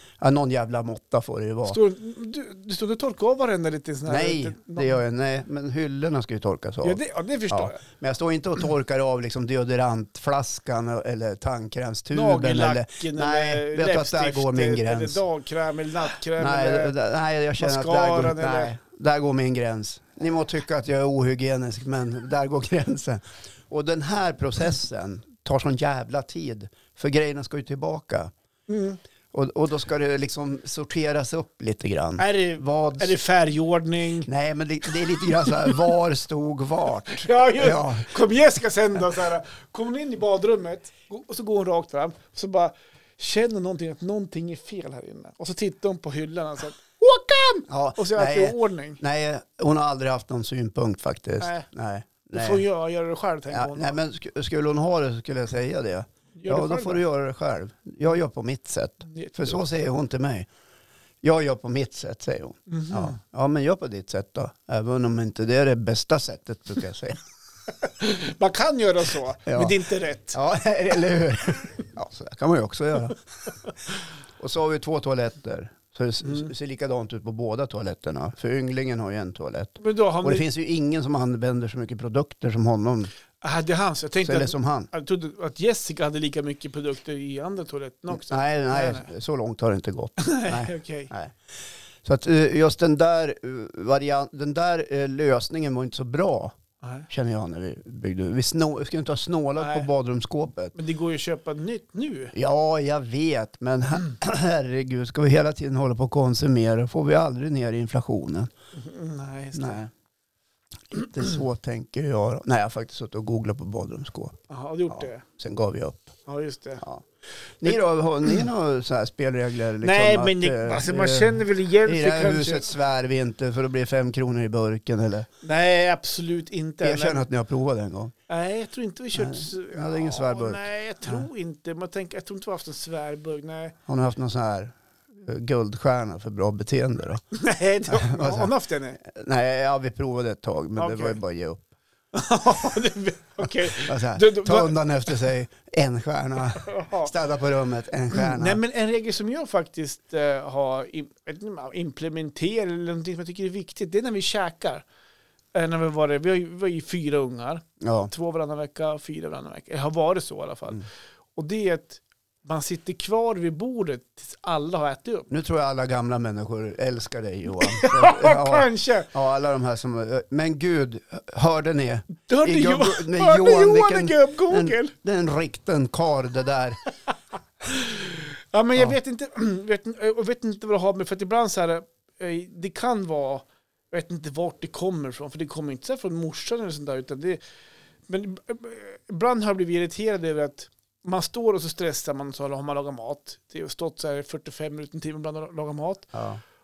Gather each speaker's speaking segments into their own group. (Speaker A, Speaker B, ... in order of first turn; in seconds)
Speaker A: 0.2-1.8, 4.1-15.2, 16.4-28.3, 29.3-33.1, 34.2-38.2, 47.7-52.6, 53.5-60.5, 61.2-67.2, 69.5-69.8, 70.3-73.2, 74.4-83.1, 84.2-84.9, 88.1-91.3, 92.0-96.6, 97.1-100.7, 102.3-108.5, 109.5-109.9, 110.9-114.4, 114.9-116.2, 116.8-117.0, 117.6-125.3, 126.8-128.1, 129.1-131.2, 133.9-137.2, 137.9-141.6, 143.8-148.6, 157.8-158.1, 165.3-176.8, 196.1-196.4
Speaker B: 1.6-5.0, 6.8-7.8, 12.1-16.9, 17.6-18.7, 28.7-29.0, 32.2-34.3, 35.2-35.7, 37.1-49.0, 51.4-51.7, 52.3-54.0, 56.4-57.0, 59.1-59.6, 62.7-63.1, 67.8-70.4, 79.8-80.5, 83.4-89.1, 90.2-91.1, 96.8-97.1, 99.6-99.9, 100.7-102.3, 108.7-109.8, 114.5-115.2, 116.3-116.8, 119.8-122.7, 125.4-127.2, 128.3-133.7, 137.3-139.0, 140.8-141.2, 142.1-144.7, 146.5-147.1, 148.1-154.8, 155.5-165.3, 167.6-169.1, 172.3-174.9, 177.7-187.4, 188.1-196.1